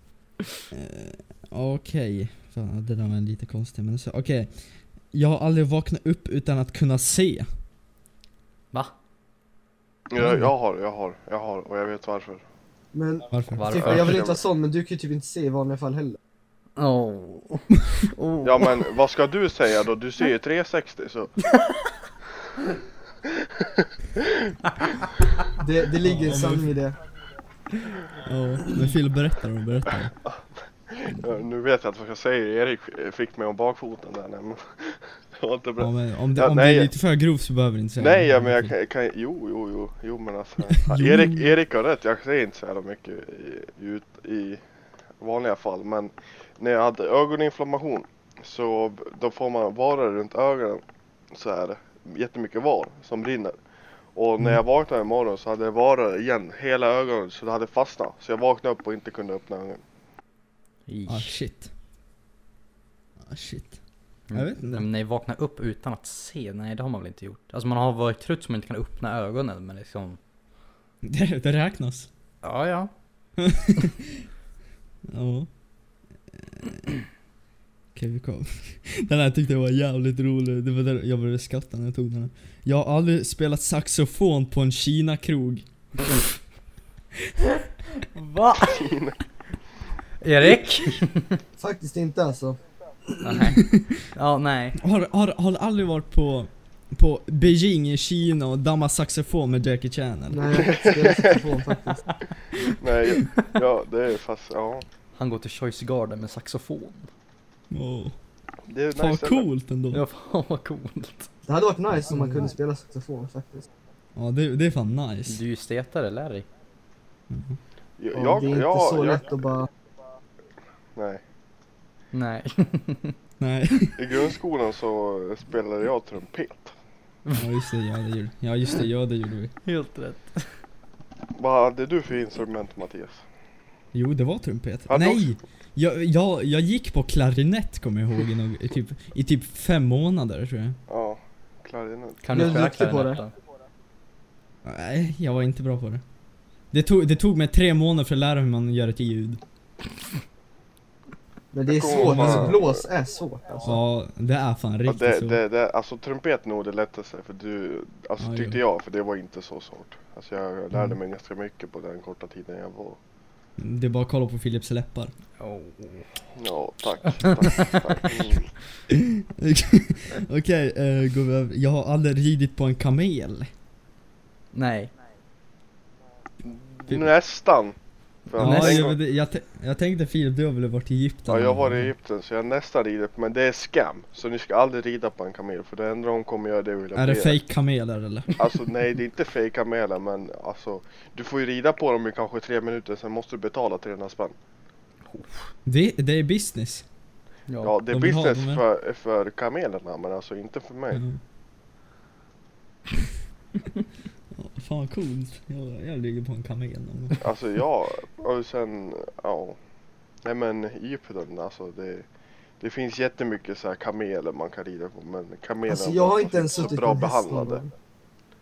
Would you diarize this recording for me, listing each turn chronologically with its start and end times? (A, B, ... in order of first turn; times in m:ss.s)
0:00.7-0:07.5 A
0:10.1-0:12.4 B
0:10.2-0:10.5 A
0:12.9-0:16.2 C
0:13.3-0:13.7 A
0:13.5-0:14.3 D
0:13.7-0:14.4 B
0:16.8-0:18.9 D
0:18.4-0:21.3 B
0:21.6-0:21.8 D
0:25.6-0:27.0 C
0:26.0-0:26.7 A
0:28.2-0:30.1 A
0:30.2-0:36.9 B
0:35.8-0:38.7 A
0:38.0-0:44.6 B
0:40.8-0:41.5 A
0:45.2-0:53.6 B
0:54.1-0:59.8 B
1:00.9-1:01.4 D
1:01.1-1:01.7 A
1:03.2-1:03.8 A
1:04.3-1:10.2 D
1:04.3-1:04.8 A
1:11.0-1:12.1 A
1:12.4-1:12.9 D
1:13.4-1:14.1 A
1:15.1-1:15.5 A
1:16.5-1:16.8 A
1:17.9-1:25.6 A
1:28.0-1:28.9 D
1:28.6-1:29.2 B
1:30.2-1:31.4 D
1:31.6-1:33.5 C
1:33.2-1:34.8 D
1:33.6-1:34.0 A
1:34.8-1:40.7 A
1:40.3-1:42.0 C
1:40.5-1:41.4 B
1:42.6-1:44.8 B
1:45.1-1:47.1 D
1:47.7-1:48.2 A
1:48.7-1:49.5 B
1:48.9-1:50.0 A
1:49.9-1:51.3 D
1:51.5-1:53.6 C
1:52.1-1:52.4 A
1:54.2-1:55.4 A
1:55.3-1:56.4 D
1:57.3-1:57.6 A
1:58.0-1:59.2 B
1:58.1-1:59.7 C
2:00.9-2:01.2 B
2:02.1-2:03.2 D
2:03.4-2:04.2 A
2:04.0-2:06.7 B
2:07.3-2:09.5 A
2:09.6-2:10.6 D
2:11.4-2:13.2 B
2:13.9-2:20.8 A
2:14.9-2:15.3 B
2:20.9-2:22.6 B
2:22.2-2:23.3 D
2:22.3-2:23.2 C
2:24.6-2:26.0 A
2:26.7-2:29.4 A
2:31.5-2:33.8 C
2:31.7-2:32.8 B
2:32.0-2:32.5 A
2:33.6-2:35.4 A
2:34.9-2:43.0 B
2:38.2-2:38.6 A
2:40.7-2:41.0 A
2:43.6-2:45.1 A
2:45.4-2:46.1 D
2:46.3-2:48.5 B
2:47.4-2:48.3 D
2:48.9-2:53.5 A
2:54.5-2:54.9 D
2:56.4-2:59.0 B
2:58.4-2:58.9 D
2:58.4-3:01.9 A
3:01.3-3:07.4 B
3:06.9-3:08.4 A
3:08.4-3:14.4 B
3:15.1-3:15.5 D
3:15.6-3:16.8 A
3:17.5-3:17.7 D
3:17.6-3:21.0 B
3:17.9-3:18.6 A
3:20.9-3:21.2 A
3:24.3-3:27.2 A
3:27.2-3:29.6 B
3:30.2-3:32.0 B
3:32.6-3:37.6 B
3:35.7-3:37.7 C